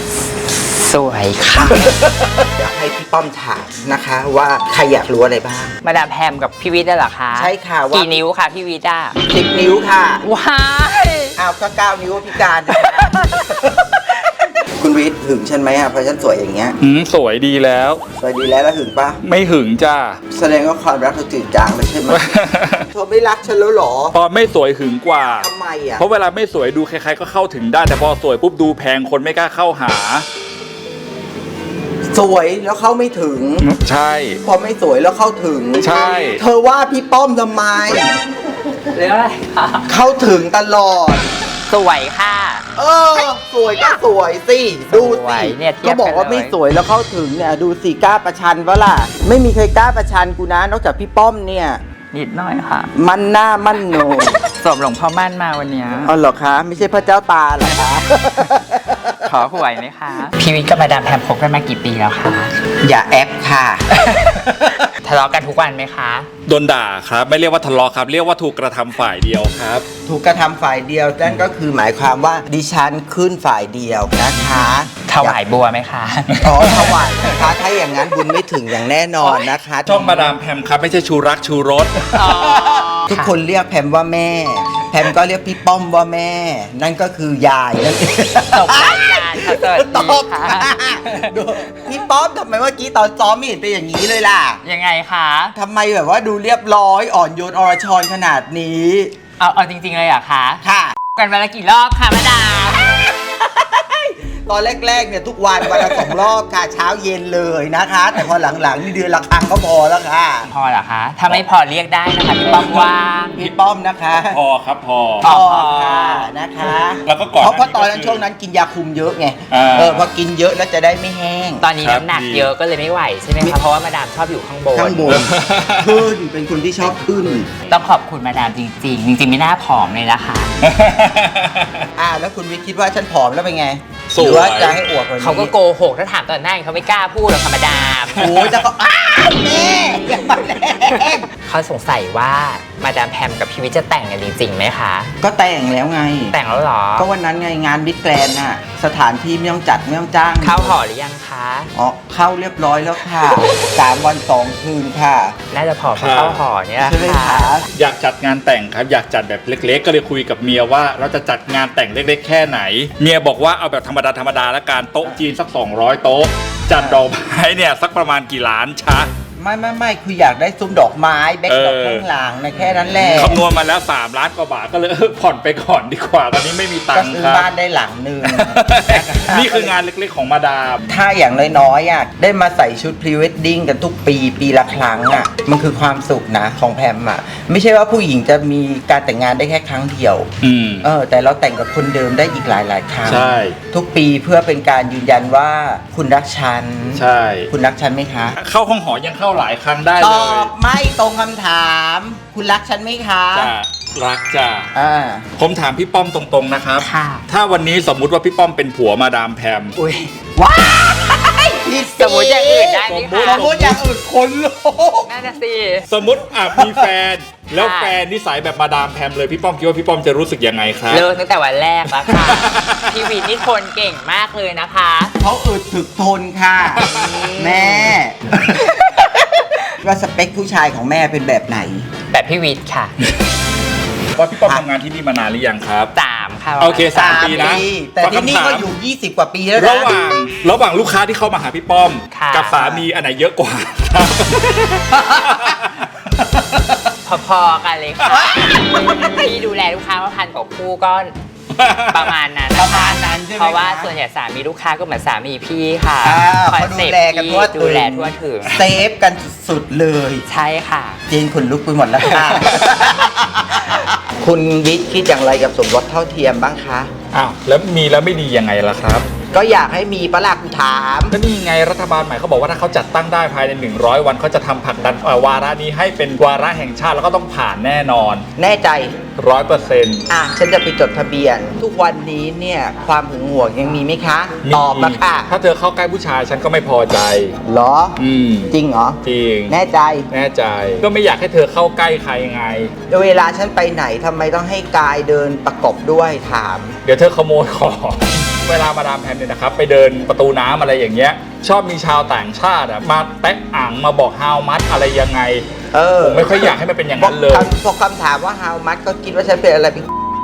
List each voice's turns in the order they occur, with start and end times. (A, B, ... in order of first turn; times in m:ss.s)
0:00.5-0:02.0 A
0:01.6-0:05.7 B
0:05.8-0:09.2 A
0:07.3-0:08.2 B
0:09.2-0:10.2 B
0:10.2-0:11.3 A
0:11.4-0:14.0 B
0:12.7-0:13.7 A
0:14.6-0:16.8 B
0:16.8-0:18.0 C
0:18.2-0:19.2 B
0:19.2-0:20.2 C
0:20.3-0:22.3 B
0:22.1-0:22.8 C
0:22.9-0:24.2 B
0:24.1-0:30.2 C
0:25.3-0:26.0 B
0:32.1-0:33.7 B
0:33.6-0:34.4 C
0:34.4-0:38.1 B
0:35.8-0:36.4 C
0:38.9-0:39.9 A
0:39.8-0:41.3 B
0:41.7-0:42.6 A
0:42.8-0:51.8 B
0:44.9-0:46.6 A
0:52.1-0:52.9 A
0:52.9-0:54.4 B
0:53.8-0:56.1 A
0:56.0-0:59.2 B
0:59.2-1:02.5 A
1:02.8-1:03.9 B
1:03.9-1:06.3 A
1:06.5-1:09.8 C
1:10.0-1:15.4 B
1:15.0-1:16.5 A
1:16.4-1:17.5 C
1:16.4-1:20.3 B
1:19.8-1:22.4 C
1:22.1-1:23.3 A
1:22.3-1:34.6 B
1:28.5-1:31.3 A
1:34.6-1:35.5 A
1:35.5-1:39.1 B
1:39.4-1:40.6 A
1:40.6-1:41.0 B
1:41.1-1:43.0 A
1:42.9-1:50.5 B
1:50.5-1:53.4 A
1:52.4-1:53.5 C
1:53.4-1:54.4 B
1:54.2-1:55.3 C
1:55.2-1:56.3 A
1:55.2-2:01.6 B
1:57.0-1:58.2 C
1:59.5-2:00.1 C
2:01.6-2:05.2 A
2:01.8-2:02.5 C
2:04.7-2:07.5 B
2:05.1-2:06.1 C
2:06.8-2:10.6 A
2:10.6-2:11.8 C
2:12.0-2:15.5 B
2:14.1-2:14.8 C
2:15.2-2:18.3 A
2:18.1-2:18.6 C
2:18.2-2:21.3 B
2:21.4-2:25.1 A
2:25.2-2:26.4 B
2:26.3-2:27.1 A
2:27.0-2:30.8 B
2:30.4-2:31.7 A
2:31.7-2:35.4 B
2:35.5-2:37.7 A
2:35.9-2:36.4 C
2:36.8-2:37.6 B
2:37.7-2:49.1 C
2:46.7-2:47.0 B
2:49.4-2:53.4 B
2:51.5-2:57.5 C
2:56.9-2:59.7 B
2:58.2-3:00.8 C
3:00.9-3:10.3 B
3:10.4-3:10.9 C
3:10.8-3:18.4 B
3:13.0-3:13.6 C
3:16.9-3:17.5 C
3:18.4-3:20.5 C
3:20.0-3:23.5 B
3:23.3-3:24.7 C
3:24.7-3:25.3 B
3:25.4-3:29.7 C
3:26.8-3:27.2 A
3:29.8-3:30.1 A
3:30.4-3:35.1 B
3:31.9-3:33.5 A
3:32.8-3:33.8 C
3:35.0-3:35.9 A
3:35.9-3:41.1 C
3:36.5-3:36.9 B
3:37.5-3:38.0 A
3:40.9-3:45.1 A
3:41.9-3:43.4 C
3:45.2-3:51.9 B
3:46.6-3:47.3 C
3:46.8-3:48.0 A
3:52.1-3:52.9 A
3:54.1-3:55.9 C
3:55.9-3:57.6 A
3:56.6-3:58.7 C
3:57.0-3:59.9 B
3:59.6-4:06.0 C
4:02.1-4:02.6 A
4:02.6-4:02.8 B
4:04.9-4:05.6 B
4:06.2-4:06.8 B
4:07.0-4:11.1 A
4:08.0-4:09.3 B
4:11.5-4:12.1 C
4:11.7-4:18.6 A
4:12.5-4:13.9 B
4:16.0-4:20.2 B
4:20.2-4:21.0 A
4:21.1-4:26.9 B
4:27.1-4:29.0 C
4:29.3-4:31.2 B
4:31.1-4:38.2 C
4:38.4-4:39.0 B
4:39.2-4:40.0 C
4:40.1-4:45.3 B
4:44.4-4:47.4 C
4:47.4-4:50.1 B
4:48.0-4:49.6 C
4:50.1-4:52.7 C
4:52.9-4:56.8 B
4:56.8-5:05.4 C
5:05.7-5:09.9 B
5:06.0-5:07.5 C